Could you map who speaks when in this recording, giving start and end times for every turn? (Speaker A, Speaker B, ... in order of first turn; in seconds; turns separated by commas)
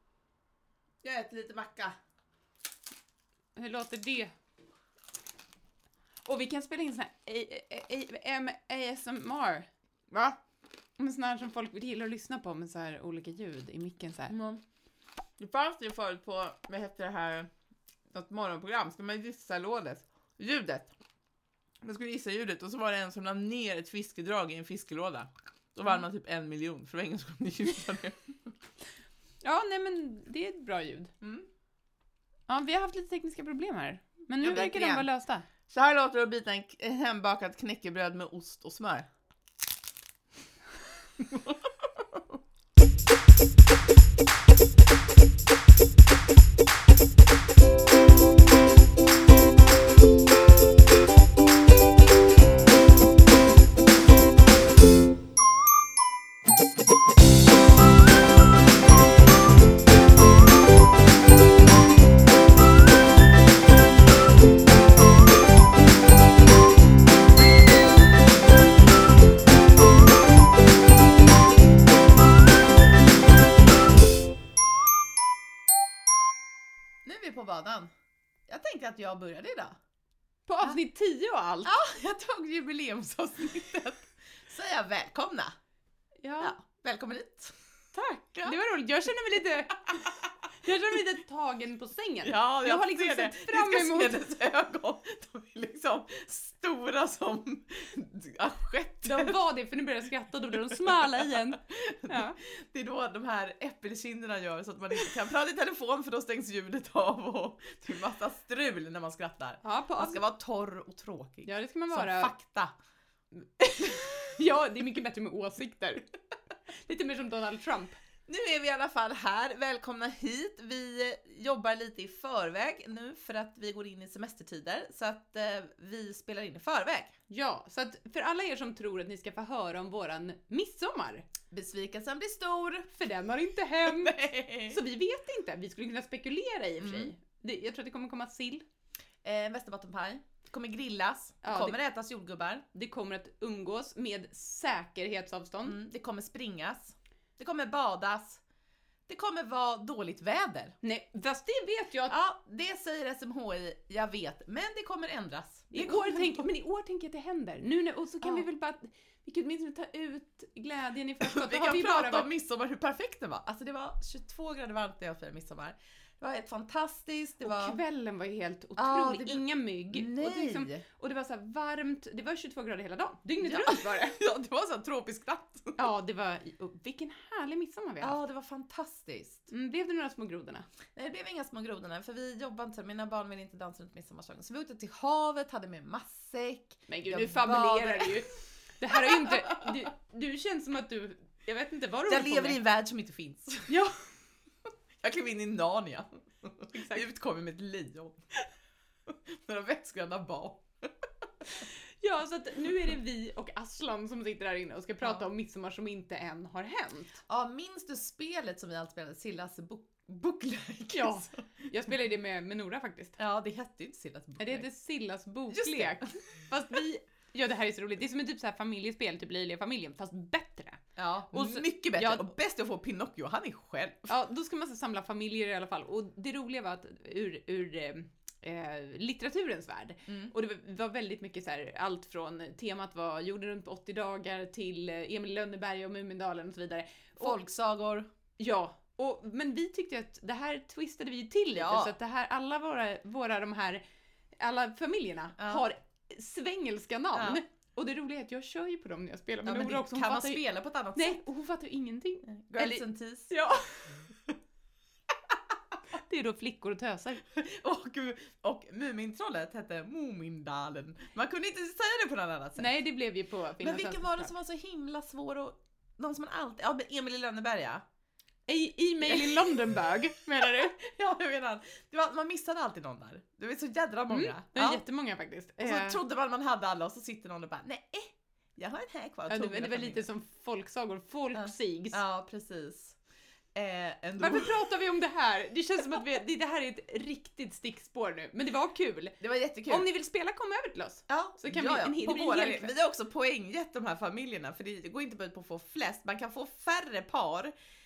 Speaker A: 1.0-1.9, Speaker B: 3.5-4.3, Speaker B: 6.2-9.7, Speaker A: 10.1-10.3, Speaker B: 11.0-14.3, Speaker A: 14.3-14.6, Speaker A: 15.4-17.5, Speaker A: 18.1-20.9, Speaker A: 21.8-28.6, Speaker B: 29.4-31.1, Speaker A: 31.2-31.5, Speaker B: 32.5-35.5, Speaker A: 34.4-35.1, Speaker A: 35.7-39.1, Speaker A: 41.2-42.4, Speaker A: 77.0-77.9, Speaker A: 78.5-79.8, Speaker B: 80.5-81.7, Speaker A: 81.7-85.5, Speaker B: 86.2-86.5, Speaker A: 86.4-88.6, Speaker B: 88.4-94.2, Speaker A: 89.9-90.3, Speaker A: 92.2-99.4, Speaker B: 99.0-102.4, Speaker A: 100.5-112.7, Speaker B: 109.6-110.2, Speaker B: 111.4-112.3, Speaker B: 113.6-116.1, Speaker B: 116.8-118.0, Speaker A: 118.3-127.1, Speaker B: 127.3-131.3, Speaker A: 131.5-132.9, Speaker B: 132.9-138.6, Speaker A: 133.8-134.8, Speaker A: 136.8-137.1, Speaker A: 139.2-142.6, Speaker B: 141.4-141.8, Speaker B: 142.7-145.8, Speaker A: 145.6-148.4, Speaker A: 149.1-150.7, Speaker B: 150.8-152.2, Speaker A: 152.1-156.5, Speaker B: 155.7-162.3, Speaker A: 161.2-167.8, Speaker B: 167.4-174.2, Speaker A: 168.8-170.8, Speaker A: 173.4-175.9, Speaker B: 175.8-178.2, Speaker A: 178.0-179.5, Speaker B: 179.5-180.7, Speaker A: 180.9-188.2, Speaker B: 186.9-192.6, Speaker A: 189.0-189.7, Speaker A: 192.1-193.8, Speaker B: 193.7-194.0, Speaker A: 195.0-198.2, Speaker B: 196.7-197.0, Speaker A: 199.1-200.6, Speaker B: 201.5-207.2, Speaker A: 205.0-205.3, Speaker A: 207.3-211.4, Speaker B: 210.9-213.2, Speaker A: 213.2-214.7, Speaker B: 214.4-222.3, Speaker A: 215.5-216.2, Speaker A: 220.9-224.1, Speaker B: 224.1-237.4, Speaker A: 230.1-230.3, Speaker A: 237.2-238.1, Speaker B: 238.4-243.8, Speaker A: 241.5-241.9, Speaker B: 244.4-250.4, Speaker A: 245.4-245.6, Speaker A: 247.1-247.4, Speaker A: 249.4-251.2, Speaker B: 250.9-254.0, Speaker A: 252.3-253.3, Speaker B: 255.9-257.2, Speaker A: 257.2-262.8, Speaker B: 262.6-264.3, Speaker A: 263.6-267.8, Speaker B: 268.5-270.8, Speaker A: 269.0-274.8, Speaker B: 274.1-276.0, Speaker A: 275.6-280.0, Speaker B: 279.3-282.0, Speaker A: 281.3-282.9, Speaker A: 283.5-284.6, Speaker B: 284.2-292.7, Speaker A: 289.2-289.9, Speaker A: 291.1-297.5